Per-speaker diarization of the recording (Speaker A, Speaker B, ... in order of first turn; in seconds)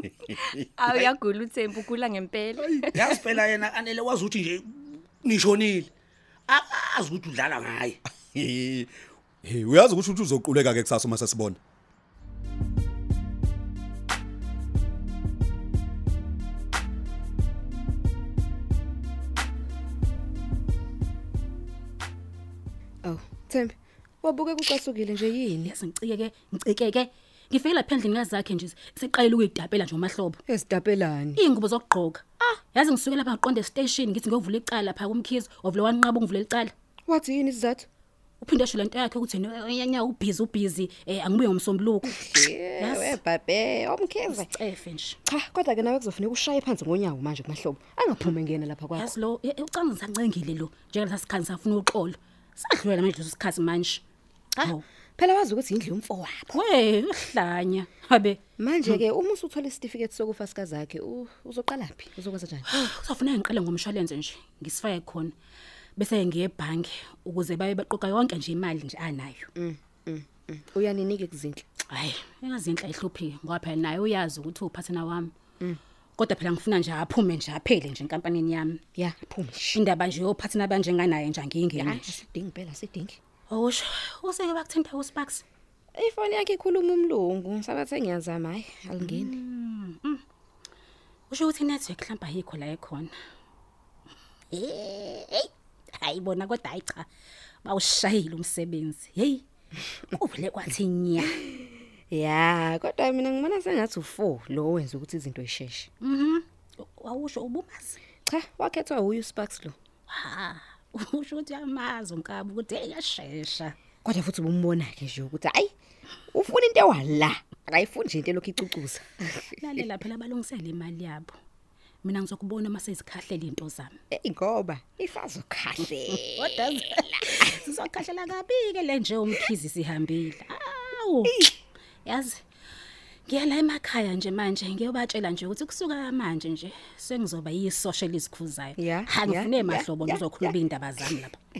Speaker A: 0.3-3.1
Speaker B: 2.9-5.9, 6.5-8.0
Speaker C: 8.3-8.9, 9.4-11.6
Speaker D: 23.0-25.7, 30.5-31.4, 37.1-37.9, 42.1-44.5, 45.3-49.1, 54.5-56.6, 58.6-62.8, 69.6-71.6, 79.0-79.8, 81.8-83.2, 85.9-89.3, 101.4-105.9, 108.2-109.7, 114.0-115.7, 116.3-119.8, 124.1-127.5, 138.8-140.5
Speaker E: 25.6-30.4, 31.3-36.7, 38.4-43.2, 44.3-45.2, 48.9-54.0, 56.5-58.4, 62.7-65.3, 66.0-69.5, 71.9-75.3, 76.2-78.8, 79.7-82.2, 83.5-85.4, 89.0-90.2, 91.3-93.1, 94.5-97.1, 97.6-99.4, 100.1-101.3, 106.0-108.0, 110.1-113.8, 119.6-121.3, 122.0-124.0, 126.3-131.5, 132.0-132.4, 133.3-141.3